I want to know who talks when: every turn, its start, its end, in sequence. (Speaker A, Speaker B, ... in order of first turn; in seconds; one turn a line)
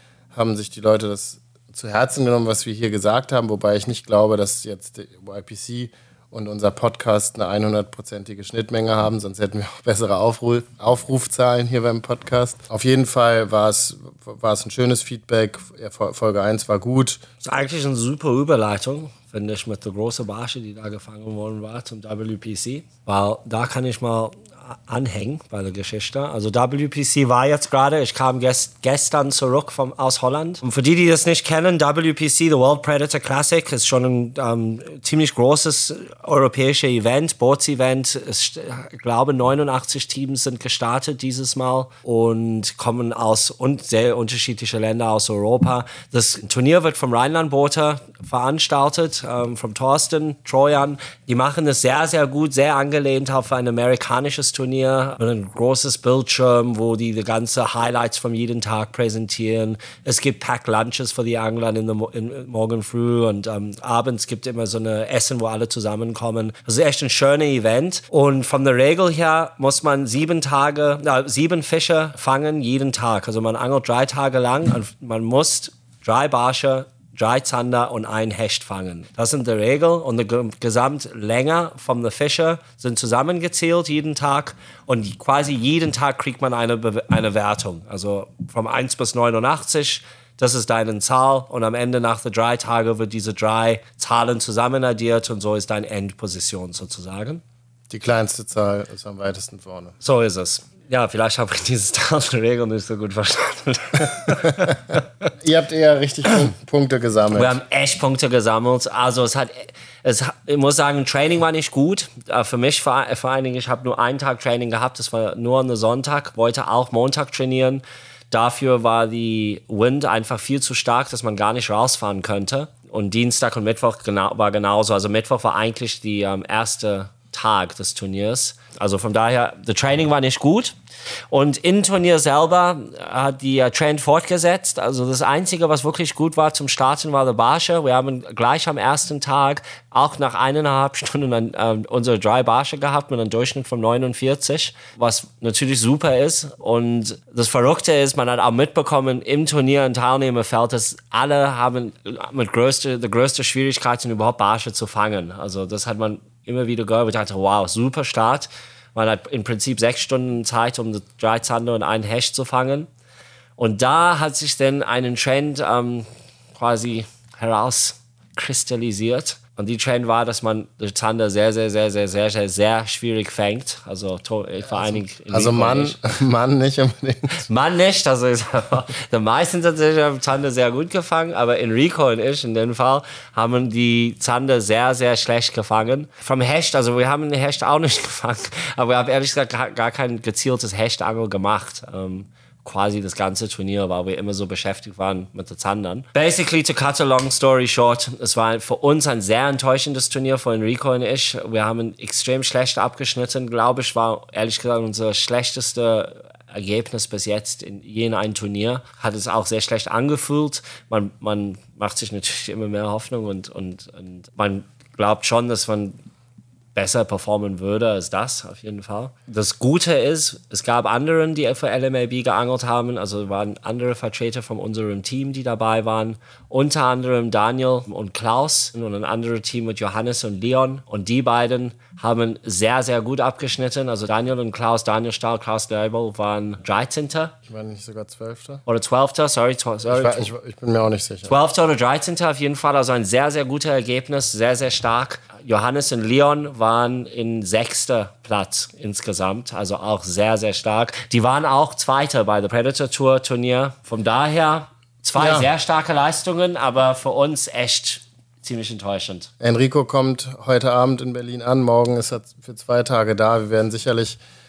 Speaker A: 0.3-17.2
Speaker B: 17.4-97.4
Speaker A: 97.9-99.9
Speaker B: 100.0-105.0
Speaker A: 105.4-107.6
Speaker B: 107.3-130.7
Speaker B: 131.3-162.9
Speaker B: 163.6-176.0
Speaker A: 174.8-177.5
Speaker B: 177.5-216.0
Speaker B: 216.7-237.3
Speaker A: 237.5-238.6
Speaker B: 238.7-240.3
Speaker A: 239.8-241.3
Speaker B: 241.3-259.3
Speaker A: 255.2-255.5
Speaker A: 259.4-264.2